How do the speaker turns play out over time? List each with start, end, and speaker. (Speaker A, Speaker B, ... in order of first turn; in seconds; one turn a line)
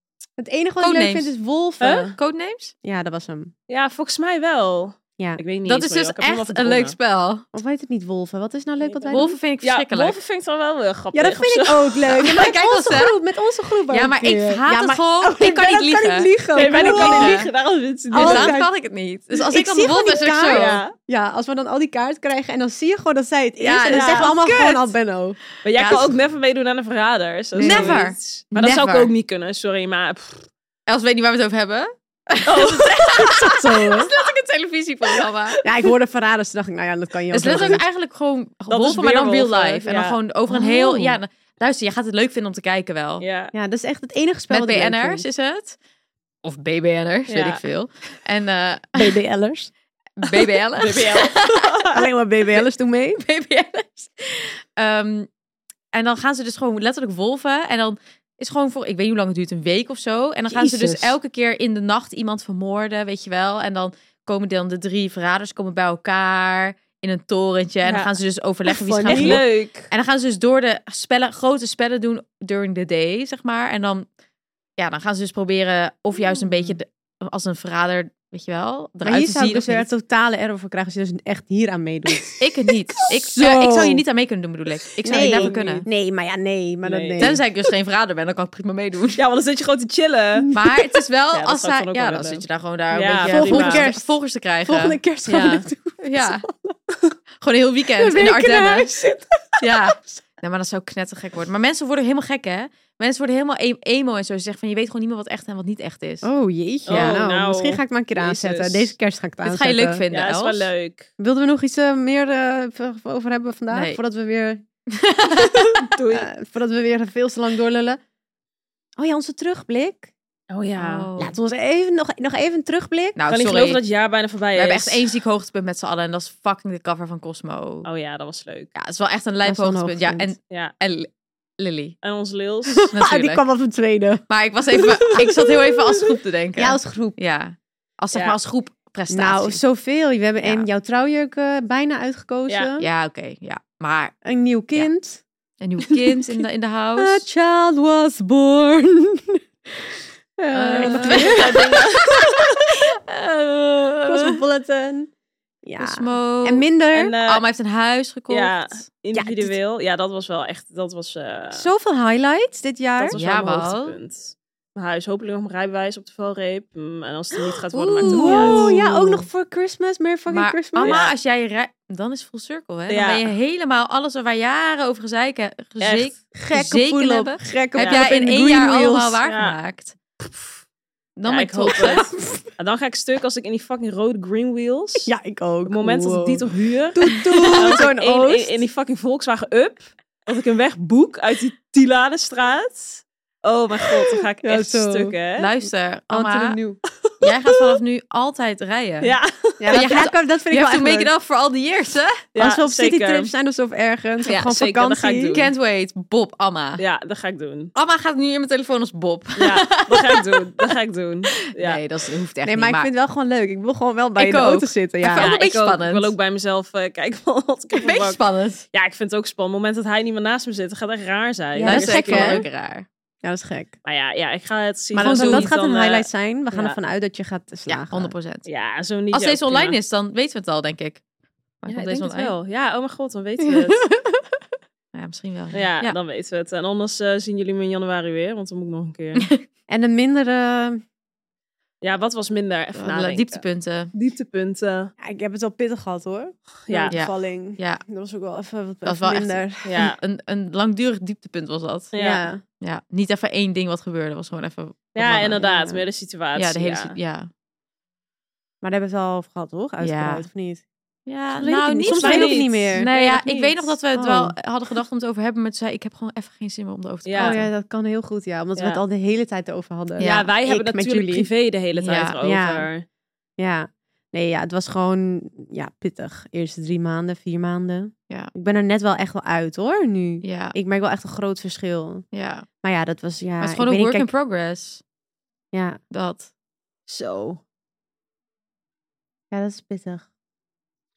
Speaker A: 0.4-2.1
Speaker B: 0.8-1.3
Speaker C: 1.8-2.1
Speaker B: 2.1-2.7
Speaker A: 2.8-3.5
Speaker C: 3.7-7.0
Speaker B: 5.7-7.5
Speaker A: 7.5-9.4
Speaker C: 8.8-12.1
Speaker B: 9.1-10.2
Speaker A: 11.1-17.4
Speaker B: 12.1-13.2
Speaker B: 13.9-17.5
Speaker C: 16.6-18.6
Speaker A: 18.1-18.7
Speaker B: 18.2-20.8
Speaker A: 19.5-25.4
Speaker C: 20.5-20.9
Speaker B: 23.6-24.9
Speaker C: 23.9-24.4
Speaker C: 25.6-30.5
Speaker B: 25.8-26.2
Speaker B: 27.6-29.1
Speaker A: 27.6-28.0
Speaker B: 30.9-35.6
Speaker C: 32.5-33.6
Speaker A: 33.3-34.1
Speaker A: 35.6-37.8
Speaker B: 37.3-43.2
Speaker C: 38.7-40.2
Speaker A: 40.5-41.2
Speaker C: 43.2-43.5
Speaker A: 43.5-45.2
Speaker B: 44.5-45.8
Speaker B: 46.4-49.2
Speaker C: 47.3-47.6
Speaker A: 48.9-49.7
Speaker B: 50.2-51.7
Speaker C: 50.8-52.1
Speaker A: 51.9-53.2
Speaker B: 53.2-55.3
Speaker B: 55.9-74.1
Speaker A: 60.5-61.1
Speaker C: 67.8-68.2
Speaker A: 68.8-69.4
Speaker C: 69.0-69.9
Speaker B: 74.8-79.9
Speaker A: 79.0-82.4
Speaker B: 82.4-85.9
Speaker A: 83.0-84.0
Speaker A: 85.0-87.4
Speaker C: 85.1-85.8
Speaker C: 86.8-87.4
Speaker B: 87.2-89.2
Speaker C: 89.2-90.5
Speaker A: 90.4-90.9
Speaker B: 90.5-96.4
Speaker C: 91.3-93.9
Speaker A: 93.3-94.1
Speaker A: 94.7-96.8
Speaker B: 97.4-98.9
Speaker A: 98.0-99.2
Speaker B: 99.6-106.3
Speaker A: 106.2-110.0
Speaker B: 106.9-107.2
Speaker C: 106.9-108.9
Speaker B: 109.4-110.7
Speaker C: 110.1-111.1
Speaker A: 111.2-114.6
Speaker B: 113.7-114.0
Speaker B: 114.9-115.7
Speaker C: 115.4-116.3
Speaker A: 116.1-118.0
Speaker A: 119.0-120.1
Speaker C: 120.5-121.1
Speaker B: 120.8-121.4
Speaker A: 121.2-123.2
Speaker B: 123.2-123.8
Speaker C: 123.3-125.1
Speaker B: 124.5-127.9
Speaker C: 127.8-128.7
Speaker B: 128.8-132.0
Speaker A: 129.4-130.3
Speaker C: 132.0-132.9
Speaker B: 132.9-133.4
Speaker A: 132.9-135.2
Speaker B: 134.3-139.6
Speaker C: 134.8-135.4
Speaker A: 136.6-137.2
Speaker A: 139.1-142.9
Speaker B: 140.4-140.7
Speaker B: 142.8-144.2
Speaker A: 144.2-145.2
Speaker B: 145.6-147.3
Speaker A: 147.0-149.4
Speaker A: 150.4-152.4
Speaker B: 150.5-151.8
Speaker C: 150.8-152.4
Speaker B: 153.1-154.3
Speaker A: 154.1-155.1
Speaker A: 155.7-157.2
Speaker B: 155.8-156.7
Speaker C: 156.9-157.4
Speaker B: 157.2-158.7
Speaker C: 158.3-161.7
Speaker A: 159.1-159.6
Speaker A: 161.5-163.2
Speaker C: 163.0-168.8
Speaker B: 163.1-164.0
Speaker B: 167.7-169.3
Speaker A: 168.0-171.0
Speaker B: 170.3-180.0
Speaker C: 170.8-171.1
Speaker C: 172.9-173.3
Speaker C: 175.8-176.1
Speaker A: 176.3-179.2
Speaker C: 177.8-178.0
Speaker C: 179.2-179.6
Speaker B: 181.2-182.1
Speaker C: 181.3-185.1
Speaker A: 185.1-188.6
Speaker C: 185.7-195.5
Speaker A: 194.4-195.2
Speaker B: 195.4-196.6
Speaker A: 196.1-196.8
Speaker C: 197.1-197.8
Speaker B: 197.2-199.2
Speaker C: 199.0-199.9
Speaker A: 199.6-201.1
Speaker B: 199.7-202.2
Speaker C: 202.3-203.3
Speaker A: 202.4-205.4
Speaker C: 204.3-205.5
Speaker B: 205.3-206.8
Speaker C: 206.8-207.7
Speaker B: 207.8-210.7
Speaker C: 209.4-211.8
Speaker B: 211.5-212.9
Speaker A: 212.4-215.3
Speaker B: 214.2-216.1
Speaker C: 215.1-218.2
Speaker B: 217.8-218.7
Speaker C: 218.7-222.5
Speaker A: 221.6-222.4
Speaker B: 221.6-222.9
Speaker A: 223.2-223.7
Speaker C: 223.8-226.8
Speaker A: 224.9-228.1
Speaker B: 225.0-225.5
Speaker B: 227.7-228.5
Speaker C: 228.5-229.8
Speaker B: 229.1-231.0
Speaker B: 231.6-232.3
Speaker C: 231.7-233.9
Speaker B: 233.4-234.2
Speaker B: 234.9-236.0
Speaker C: 235.5-239.3
Speaker B: 239.2-239.4
Speaker A: 239.7-240.8
Speaker C: 241.8-244.9
Speaker B: 242.8-243.9
Speaker A: 245.0-249.8
Speaker C: 246.7-247.0
Speaker B: 246.9-247.8
Speaker B: 248.8-251.9
Speaker C: 249.7-250.0
Speaker C: 251.9-252.3
Speaker A: 252.0-252.4
Speaker B: 252.6-255.5
Speaker C: 254.9-257.0
Speaker A: 255.4-255.8
Speaker B: 256.4-257.3
Speaker A: 258.6-260.6
Speaker B: 259.8-260.2
Speaker B: 261.1-267.5
Speaker A: 261.4-262.9
Speaker C: 261.9-263.8
Speaker A: 263.9-264.4
Speaker C: 267.1-267.4
Speaker A: 267.2-271.3
Speaker C: 268.6-268.8
Speaker B: 270.0-270.3
Speaker C: 270.0-272.9
Speaker B: 271.8-272.2
Speaker A: 272.2-272.7
Speaker A: 273.4-282.0
Speaker B: 280.2-280.6
Speaker B: 282.1-282.5
Speaker A: 282.6-284.1
Speaker B: 283.4-284.8
Speaker A: 285.5-285.8
Speaker B: 285.9-286.3
Speaker A: 286.9-287.4
Speaker A: 289.3-290.1